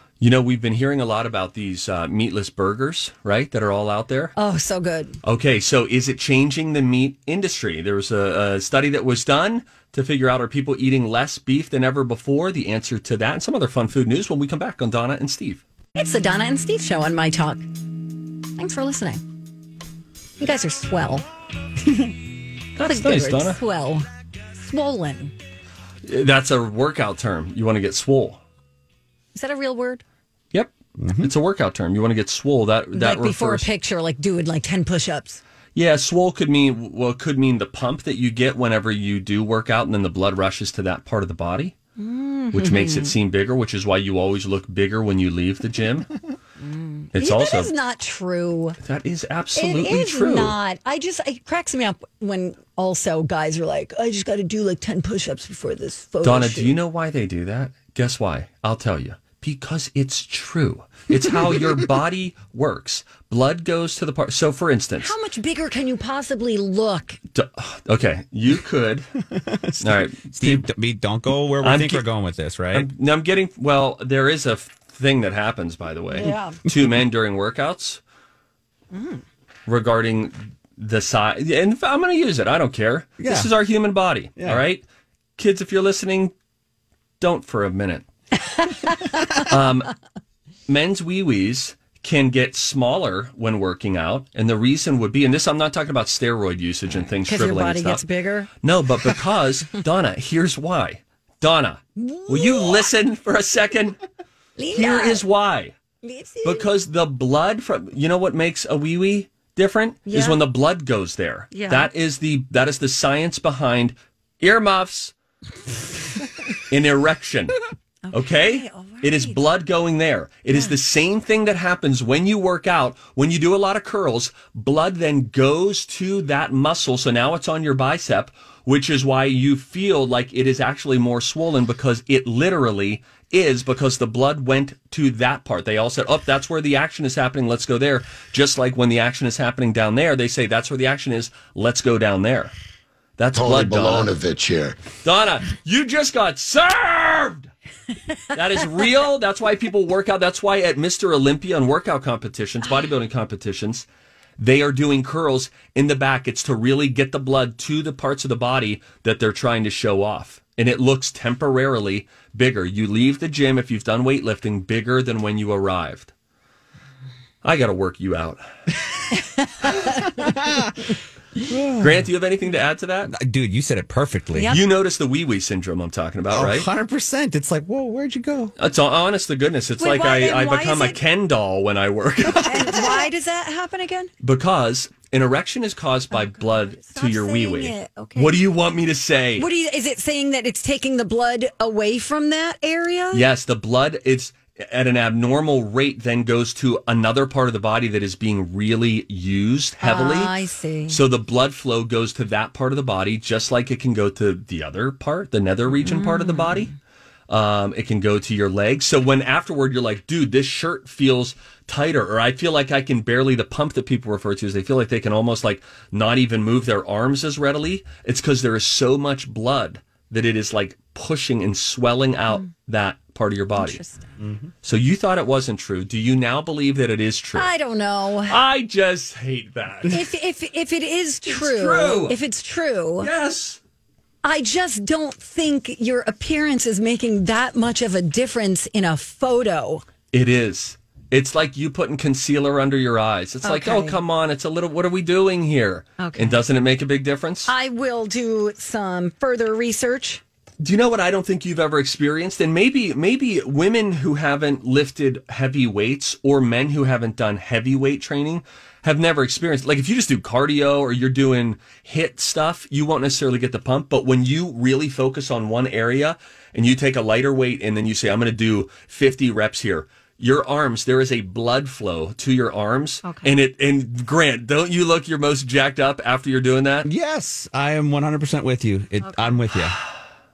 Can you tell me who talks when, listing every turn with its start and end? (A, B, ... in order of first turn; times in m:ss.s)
0:00.2-0:04.3 A
0:04.4-0:05.2 B
0:05.2-0:15.6 A
0:16.0-0:17.6 B
0:18.6-0:19.2 B
0:20.4-0:21.2 B
0:22.8-0:23.6 A
0:22.8-0:25.3 B
0:26.0-0:28.4 A
0:29.3-0:30.0 B
0:30.5-0:33.7 A
0:31.0-0:31.3 C
0:32.9-0:35.4 B
0:35.7-0:41.7 A
0:42.0-0:43.1 B
0:42.5-0:46.1 A
0:46.6-0:48.8 B
0:47.1-0:47.7 A
0:48.8-0:50.6 A
0:49.6-0:56.7 B
0:56.2-1:05.1 A
1:05.0-1:07.2 B
1:07.3-1:09.1 A
1:09.3-1:12.9 C
1:09.8-1:10.7 A
1:11.6-1:12.0 A
1:12.7-1:18.0 A
1:16.2-1:16.6 B
1:18.9-1:19.2 B
1:19.7-1:24.8 A
1:23.2-1:23.5 C
1:24.4-1:24.6 C
1:25.4-1:26.3 A
1:27.2-1:28.0 A
1:28.6-1:29.5 B
1:29.3-1:29.9 A
1:30.7-1:38.0 A
1:37.2-1:38.5 B
1:38.6-1:44.0 A
1:42.0-1:42.8 B
1:44.6-1:45.2 B
1:44.7-1:45.7 A
1:46.0-1:46.7 B
1:46.4-1:55.1 A
1:50.0-1:50.4 B
1:51.5-1:51.9 B
1:56.7-1:57.5 A
1:58.0-1:59.4 B
1:58.1-2:22.5 A
2:23.2-2:24.2 A
2:24.9-2:27.5 A
2:28.3-2:33.8 A
2:34.4-2:46.1 A
2:47.4-2:48.4 A
2:50.2-2:50.7 C
2:51.5-2:52.1 C
2:51.8-2:53.1 A
2:53.1-2:54.6 C
2:54.4-2:54.6 B
2:54.5-2:56.7 A
2:56.3-2:58.5 C
2:58.6-3:02.8 A
2:59.8-3:01.0 B
3:02.2-3:04.1 B
3:04.2-3:09.5 A
3:06.1-3:08.4 B
3:09.4-3:13.2 B
3:13.1-3:20.4 A
3:19.8-3:21.0 B
3:20.9-3:26.7 A
3:25.8-3:26.7 B
3:27.3-3:43.8 A
3:43.6-3:44.1 B
3:44.2-3:44.5 C
3:44.6-3:47.5 A
3:47.3-3:48.4 B
3:48.3-3:50.0 A
3:49.9-3:53.1 B
3:51.3-3:52.2 A
3:53.0-3:53.6 A
3:54.2-3:59.8 B
4:00.1-4:07.5 A
4:03.4-4:04.0 B
4:06.0-4:06.4 B
4:07.5-4:10.2 B
4:10.6-4:36.8 A
4:33.0-4:33.3 B
4:36.8-4:39.8 C
4:39.0-4:39.4 B